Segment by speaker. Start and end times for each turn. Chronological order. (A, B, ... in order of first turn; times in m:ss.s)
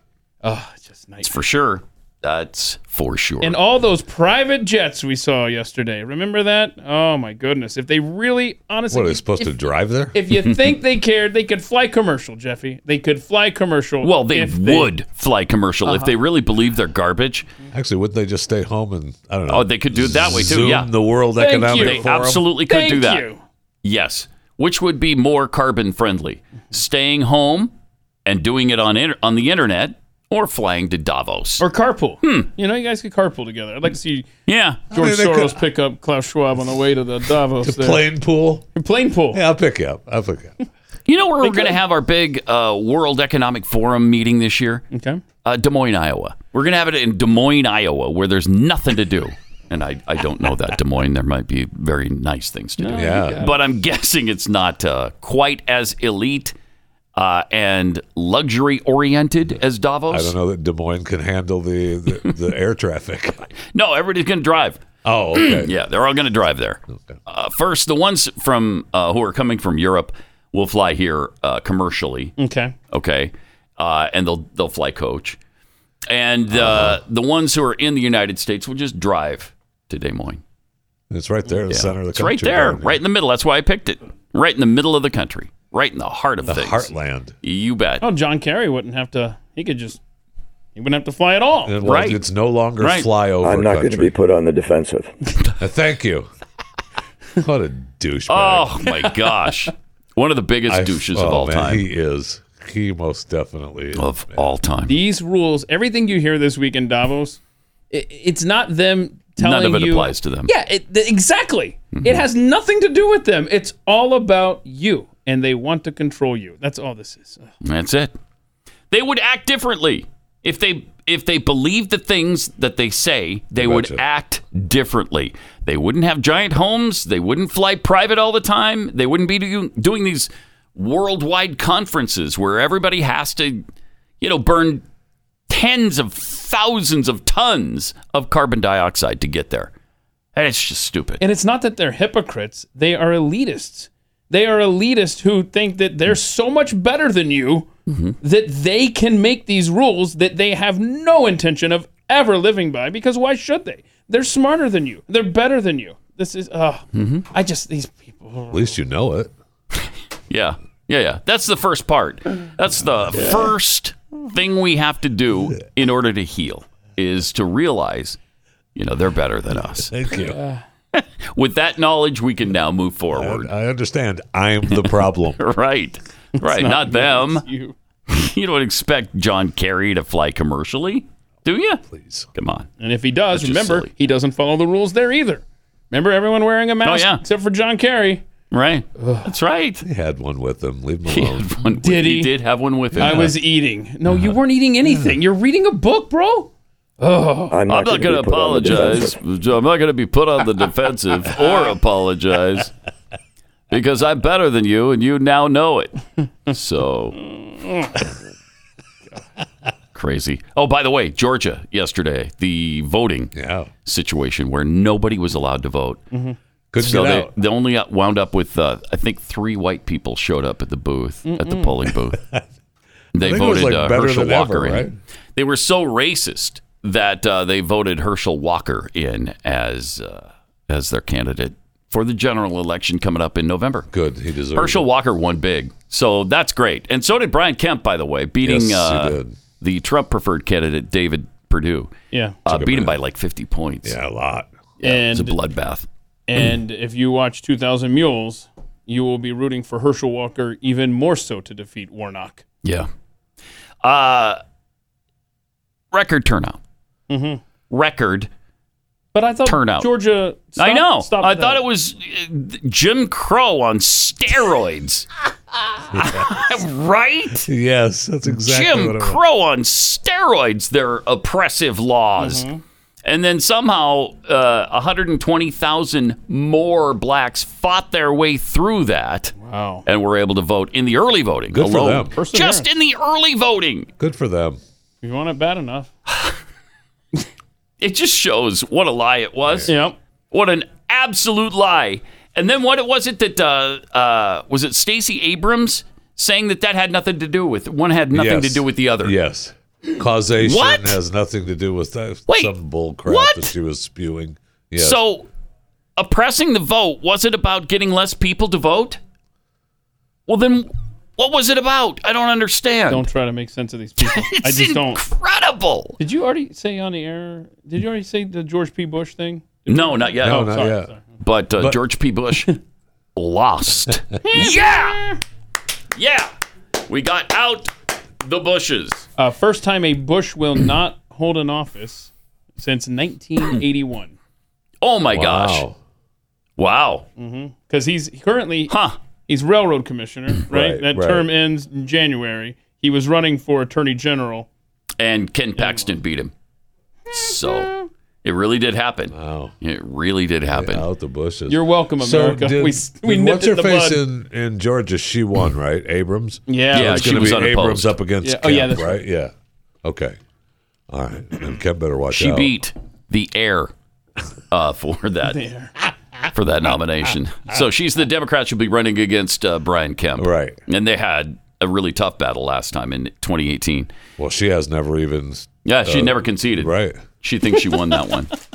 0:00.4-0:01.3 A
0:01.2-0:03.6 B
0:03.4-0:09.6 A
0:08.9-0:10.2 C
0:10.1-0:14.9 A
0:10.3-0:10.7 B
0:14.0-0:17.5 B
0:15.8-0:16.2 A
0:17.7-0:22.4 C
0:19.5-0:20.9 B
0:21.4-0:23.4 A
0:21.7-0:23.3 B
0:23.8-0:27.7 B
0:28.2-0:31.6 B
0:31.6-0:34.3 A
0:32.2-0:32.5 B
0:34.4-0:34.8 B
0:34.9-0:35.6 C
0:34.9-0:38.0 A
0:37.6-0:38.7 C
0:38.7-0:39.4 A
0:39.3-0:40.5 C
0:41.1-0:44.8 B
0:41.4-0:41.8 A
0:44.9-0:45.2 A
0:45.4-0:56.5 B
0:52.8-0:53.6 A
0:52.9-0:53.4 C
0:57.2-1:00.3 B
1:00.1-1:03.5 C
1:03.7-1:12.4 B
1:05.0-1:05.7 C
1:12.4-1:12.7 A
1:12.9-1:15.4 B
1:16.1-1:20.4 B
1:16.5-1:17.0 C
1:21.1-1:23.0 C
1:21.7-1:26.9 B
1:26.4-1:27.3 C
1:27.4-1:28.0 B
1:28.0-1:30.0 A
1:30.8-1:31.8 A
1:31.6-1:34.1 C
1:31.8-1:32.2 B
1:32.8-1:33.1 B
1:33.4-1:35.1 D
1:35.6-1:36.3 C
1:37.4-1:38.8 C
1:38.3-1:41.8 B
1:40.7-1:44.5 C
1:43.9-1:45.0 B
1:44.8-1:47.4 A
1:47.9-1:57.5 A
1:49.4-1:50.5 B
1:51.9-1:52.2 B
1:57.6-1:58.2 B
1:58.9-2:13.6 B
2:03.6-2:04.0 C
2:14.2-2:14.8 B
2:15.5-2:19.7 B
2:20.3-2:21.2 B
2:21.2-2:27.7 A
2:27.9-2:28.2 B
2:28.2-2:38.8 A
2:36.9-2:37.2 B
2:38.5-2:39.3 C
2:40.3-2:48.2 B
2:43.2-2:43.5 A
2:48.7-2:49.9 B
2:49.7-2:50.4 C
2:50.1-2:50.6 A
2:50.9-2:53.5 B
2:53.1-2:55.4 C
2:54.8-2:57.4 B
2:56.4-2:57.7 A
2:58.1-3:01.8 B
3:01.9-3:02.3 C
3:02.3-3:02.7 B
3:02.8-3:08.2 A
3:03.3-3:03.9 B
3:06.8-3:07.2 B
3:08.5-3:09.8 B
3:09.0-3:09.3 A
3:09.8-3:11.5 C
3:11.1-3:13.3 B
3:11.8-3:12.4 A
3:13.0-3:17.6 A
3:13.0-3:13.3 C
3:17.5-3:19.2 D
3:17.7-3:22.7 B
3:21.3-3:21.8 A
3:23.7-3:27.2 B
3:27.2-3:28.0 A
3:29.9-3:33.3 B
3:33.3-3:33.7 C
3:33.8-3:36.0 B
3:36.1-3:36.4 A
3:36.7-3:37.3 C
3:36.8-3:42.2 B
3:41.2-3:41.8 A
3:42.1-3:42.4 C
3:43.1-3:44.9 C
3:43.1-3:53.9 B
3:53.9-3:54.8 C
3:54.5-4:01.9 B
3:58.4-3:59.4 C
4:02.1-4:02.4 A
4:02.4-4:04.0 B
4:02.4-4:03.0 C
4:03.8-4:04.5 C
4:04.8-4:05.4 A
4:04.8-4:05.9 B
4:06.3-4:12.4 A
4:13.8-4:14.4 B
4:15.9-4:16.6 B
4:17.1-4:17.4 A
4:17.7-4:18.3 B
4:19.1-4:21.6 A
4:19.4-4:19.9 B
4:20.6-4:25.1 B
4:25.9-4:26.3 C
4:25.9-4:27.5 B
4:27.4-4:29.2 C
4:28.3-4:32.4 B
4:32.2-4:32.6 A
4:33.0-4:39.3 B
4:39.4-4:39.8 A
4:39.8-4:43.9 B
4:41.5-4:42.1 C
4:42.1-4:42.7 A
4:44.0-4:44.6 C
4:45.0-4:45.9 A
4:46.1-4:46.4 B
4:47.8-4:49.7 B
4:49.4-4:49.7 C
4:49.7-4:50.0 A
4:50.3-4:59.1 B
4:58.1-5:05.0 C
5:00.4-5:01.0 B
5:02.3-5:02.5 B
5:03.0-5:03.5 B
5:04.8-5:05.3 B
5:06.0-5:09.0 B
5:10.3-5:13.1 B
5:12.9-5:15.0 A
5:14.0-5:16.0 B
5:16.0-5:21.0 A
5:19.7-5:20.6 B
5:20.2-5:20.9 C
5:21.2-5:22.5 B
5:23.2-5:25.1 B
5:24.2-5:25.1 A
5:25.9-5:26.3 B
5:26.8-5:29.0 B
5:29.2-5:34.1 A
5:34.8-5:35.6 B
5:35.1-5:35.8 C
5:36.6-5:37.0 B
5:37.2-5:38.7 A
5:38.7-5:39.0 B
5:39.3-5:44.5 A
5:40.5-5:41.3 C
5:45.0-5:46.3 B
5:45.6-5:45.9 A
5:47.1-5:47.7 B
5:47.1-5:47.8 A
5:48.2-5:50.8 B
5:49.1-5:49.5 C
5:50.5-5:59.3 C
5:51.5-5:54.0 A
5:56.5-5:57.3 A
5:56.7-5:58.0 B
5:58.2-5:59.0 A
5:59.8-6:00.2 C
6:00.9-6:02.5 C
6:02.1-6:03.7 B
6:04.5-6:05.4 B
6:05.3-6:05.7 A
6:06.3-6:13.9 B
6:10.2-6:10.6 C
6:14.2-6:17.0 C
6:15.6-6:18.3 B